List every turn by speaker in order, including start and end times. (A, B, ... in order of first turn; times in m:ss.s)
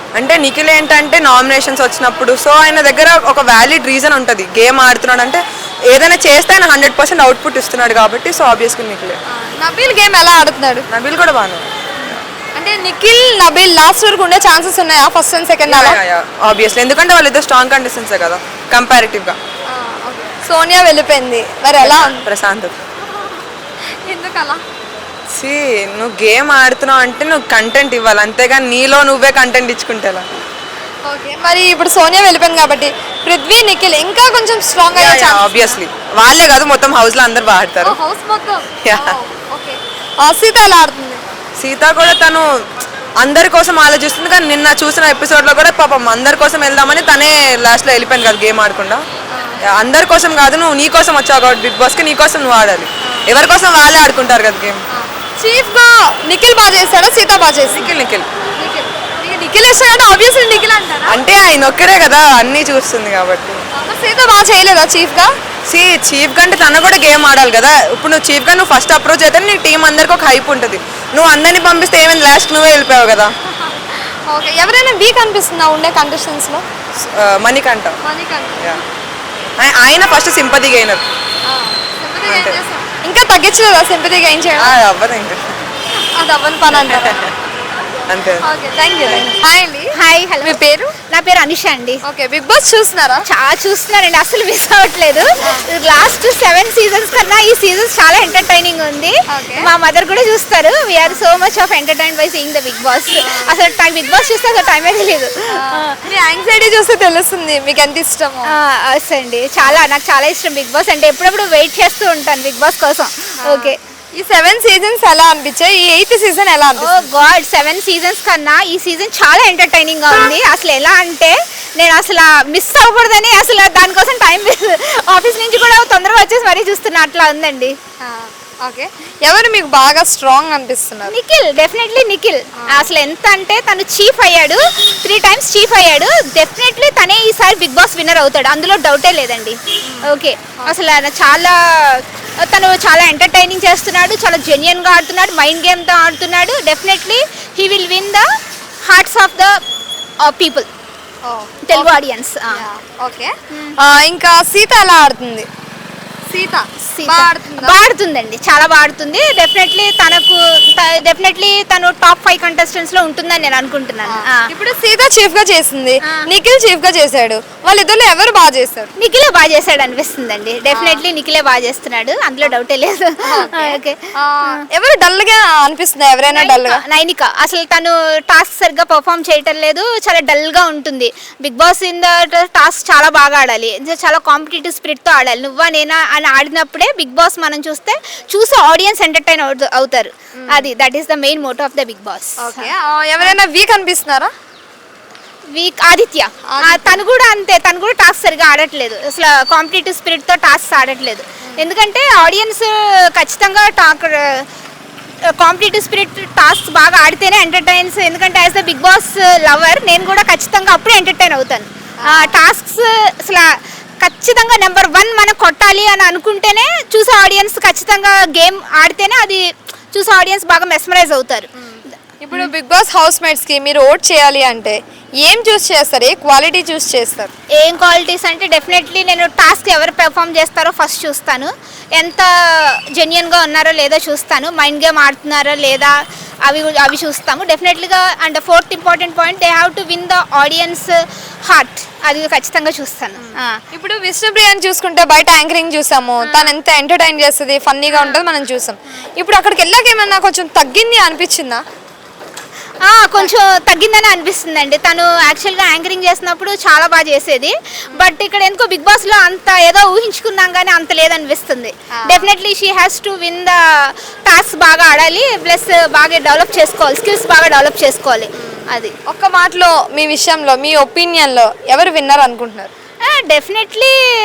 0:00.2-0:09.2 A
0:09.4-0:10.9 B
0:10.9-0:12.2 A
0:12.6-0:16.0 B
0:15.7-0:19.4 A
0:19.7-0:22.3 B
0:21.8-0:22.8 A
0:24.1-0:24.6 B
0:25.3-0:30.3 A
0:31.1-0:35.8 B
0:35.0-0:38.0 A
0:37.8-0:41.2 B
0:38.9-0:39.1 A
0:41.6-0:42.4 A
0:43.2-0:49.0 A
0:49.7-0:54.8 A
0:55.0-0:57.9 B
0:57.7-0:58.3 A
0:58.6-1:01.2 B
1:01.1-1:03.6 A
1:03.8-1:05.3 B
1:05.7-1:13.3 A
1:13.6-1:16.6 B
1:17.0-1:18.0 A
1:18.1-1:18.8 B
1:19.6-1:21.0 A
1:21.5-1:24.7 B
1:22.3-1:22.6 A
1:24.6-1:25.6 A
1:26.2-1:27.3 B
1:28.1-1:28.4 A
1:28.4-1:30.9 B
1:30.0-1:30.6 C
1:31.1-1:32.0 C
1:32.0-1:33.2 B
1:33.3-1:45.9 C
1:39.3-1:39.7 B
1:43.2-1:43.5 B
1:45.5-1:48.6 B
1:48.5-1:53.8 C
1:53.4-1:57.0 B
1:56.8-2:07.8 C
2:08.0-2:11.1 B
2:11.1-2:28.2 C
2:12.6-2:12.9 B
2:28.9-2:29.6 C
2:30.2-2:30.7 C
2:31.3-2:32.0 B
2:31.7-2:32.6 C
2:32.5-2:35.5 B
2:33.5-2:33.8 C
2:36.3-2:37.8 B
2:36.9-2:44.5 C
2:44.0-2:48.9 B
2:49.0-2:54.6 C
2:50.7-2:51.0 B
2:53.2-2:56.8 B
2:56.3-3:13.4 C
3:10.4-3:10.7 B
3:12.4-3:14.3 B
3:15.6-3:24.4 C
3:16.5-3:17.0 B
3:25.4-3:31.7 C
3:32.0-3:32.4 B
3:32.2-3:33.5 C
3:34.0-3:41.5 C
3:41.6-3:47.3 B
3:47.6-3:56.0 C
3:56.5-4:03.6 C
4:03.2-4:11.6 B
4:06.2-4:06.6 C
4:07.9-4:08.2 C
4:12.9-4:28.9 C
4:22.0-4:22.3 B
4:28.4-4:32.7 B
4:33.0-4:33.9 C